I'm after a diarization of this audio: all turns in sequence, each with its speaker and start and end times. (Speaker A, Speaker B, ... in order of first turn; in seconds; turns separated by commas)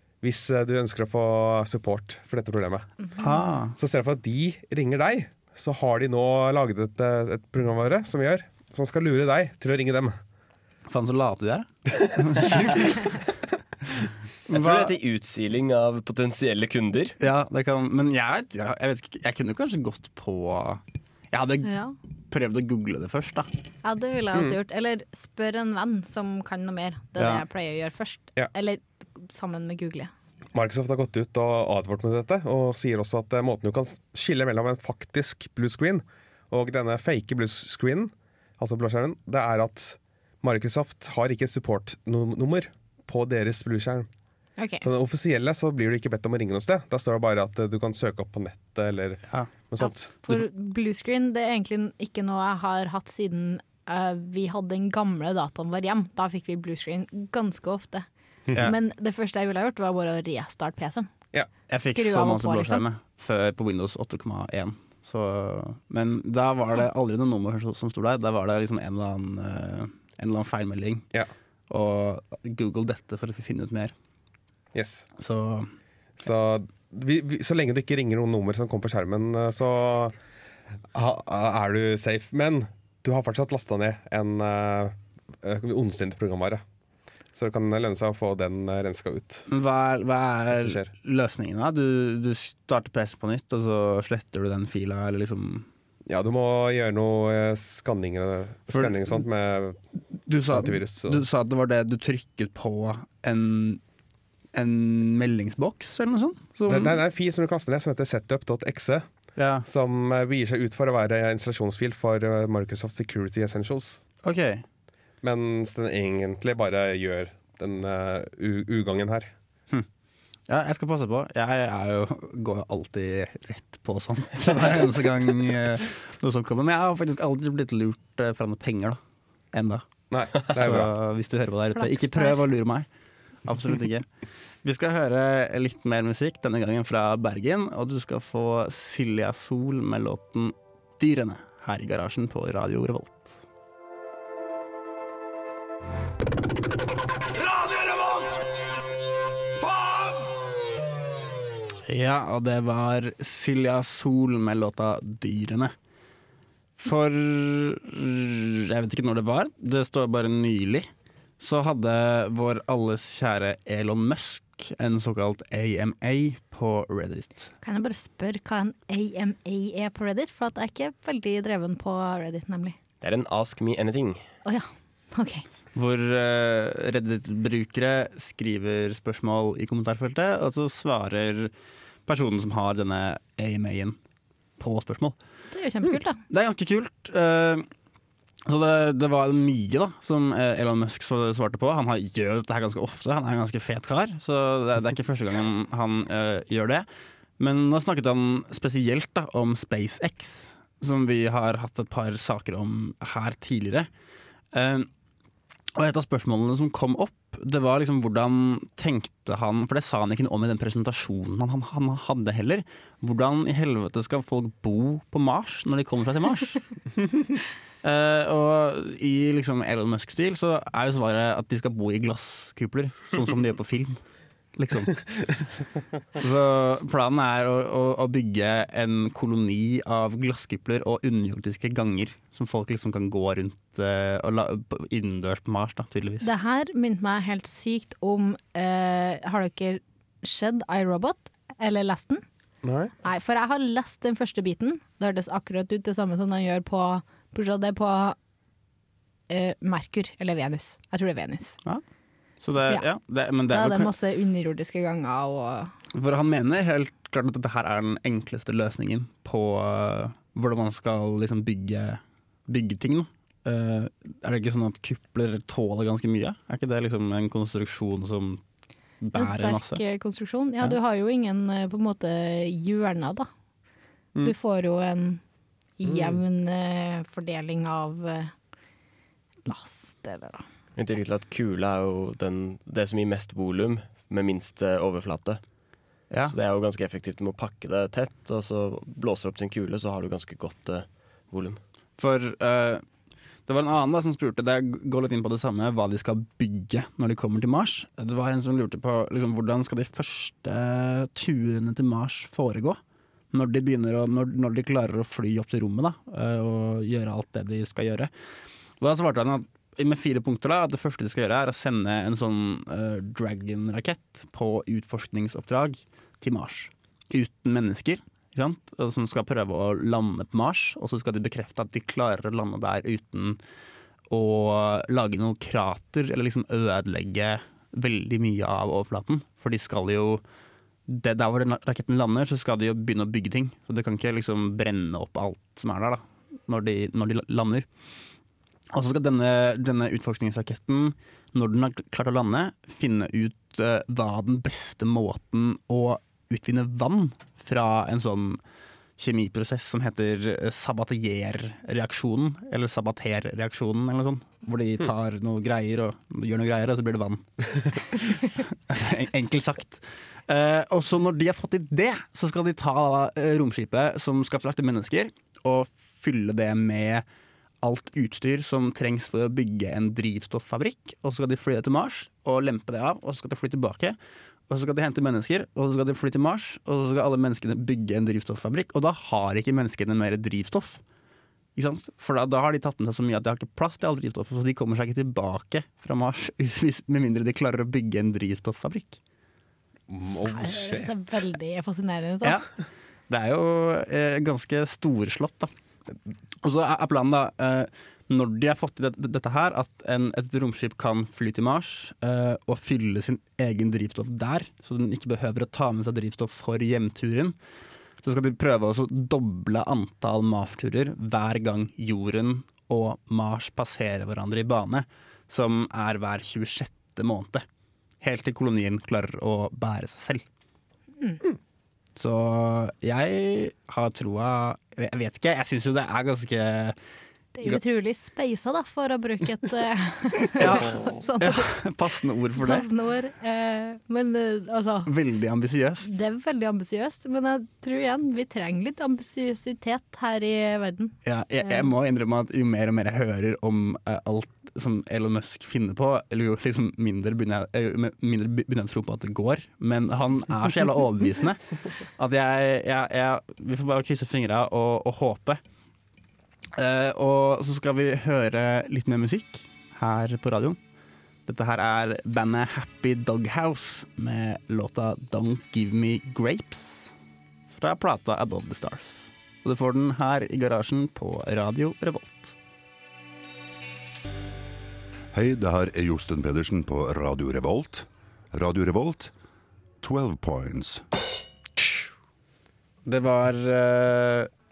Speaker A: 0.2-2.9, Speaker B: 3.2-3.7, Speaker A: 3.8-10.2, Speaker B: 10.9-12.8, Speaker B: 14.5-14.9, Speaker C: 14.5-17.1, Speaker B: 17.2-21.7, Speaker D: 21.6-21.9, Speaker B: 22.3-23.5, Speaker D: 23.8-30.1, Speaker B: 27.2-27.4, Speaker A: 30.5-44.1, Speaker D: 44.6-44.9, Speaker A: 44.8-50.1, Speaker D: 49.8-58.0, Speaker D: 58.6-61.1, Speaker B: 61.7-71.0, Speaker D: 61.8-62.8, Speaker B: 71.7-73.9, Speaker A: 74.7-75.1, Speaker B: 75.2-75.7, Speaker A: 76.2-80.1, Speaker A: 80.9-86.6, Speaker A: 87.3-89.5, Speaker B: 89.5-95.7, Speaker A: 90.5-90.9, Speaker A: 96.1-99.8, Speaker B: 98.7-99.2, Speaker B: 100.3-103.8, Speaker A: 100.5-101.2, Speaker B: 104.5-106.9, Speaker A: 106.7-109.1, Speaker B: 109.3-109.7, Speaker A: 109.6-114.0, Speaker B: 114.2-114.6, Speaker A: 115.2-119.3, Speaker B: 120.5-129.0, Speaker B: 129.5-129.8, Speaker A: 130.1-130.9, Speaker B: 130.5-132.9, Speaker D: 131.8-132.4, Speaker B: 133.4-134.1, Speaker B: 134.6-143.4, Speaker B: 151.8-155.7, Speaker B: 156.8-160.9, Speaker B: 161.4-167.5, Speaker D: 167.6-172.8, Speaker C: 173.0-174.2, Speaker D: 174.4-175.4, Speaker B: 175.7-181.5, Speaker B: 182.1-184.0, Speaker B: 184.6-185.2, Speaker D: 185.5-186.2, Speaker B: 186.3-187.7, Speaker B: 188.4-196.8, Speaker B: 197.4-203.9, Speaker B: 204.5-204.9, Speaker B: 205.7-216.6, Speaker B: 217.8-224.0, Speaker B: 224.5-225.2, Speaker B: 226.2-236.3, Speaker D: 236.2-242.2, Speaker A: 242.6-242.9, Speaker D: 243.0-248.2, Speaker D: 249.3-251.6, Speaker B: 252.4-253.9, Speaker D: 253.5-255.7, Speaker B: 255.9-268.4, Speaker B: 269.0-269.8, Speaker D: 269.1-273.3, Speaker D: 274.2-275.2, Speaker D: 275.8-278.3, Speaker A: 275.9-276.2, Speaker D: 279.4-280.4, Speaker C: 280.8-285.4, Speaker C: 286.2-291.6, Speaker B: 292.0-292.8, Speaker B: 293.5-302.8, Speaker B: 303.3-308.1, Speaker B: 308.8-323.4, Speaker B: 324.1-330.2, Speaker B: 330.9-337.7, Speaker B: 338.7-348.4, Speaker B: 349.0-367.0, Speaker B: 367.6-374.0, Speaker B: 374.5-380.8, Speaker B: 381.6-389.0, Speaker A: 389.9-391.2, Speaker D: 390.3-392.4, Speaker B: 393.1-395.5, Speaker B: 396.4-407.4, Speaker B: 408.0-417.4, Speaker B: 418.0-420.2, Speaker B: 421.9-426.8, Speaker D: 427.3-431.7, Speaker B: 430.3-432.6, Speaker D: 432.3-434.9, Speaker B: 434.8-435.9, Speaker D: 435.8-441.7, Speaker B: 441.0-451.4, Speaker B: 451.9-455.4, Speaker B: 456.6-460.6, Speaker B: 461.3-466.9, Speaker B: 467.5-472.3, Speaker E: 475.1-479.1, Speaker E: 479.8-480.9, Speaker B: 482.8-484.3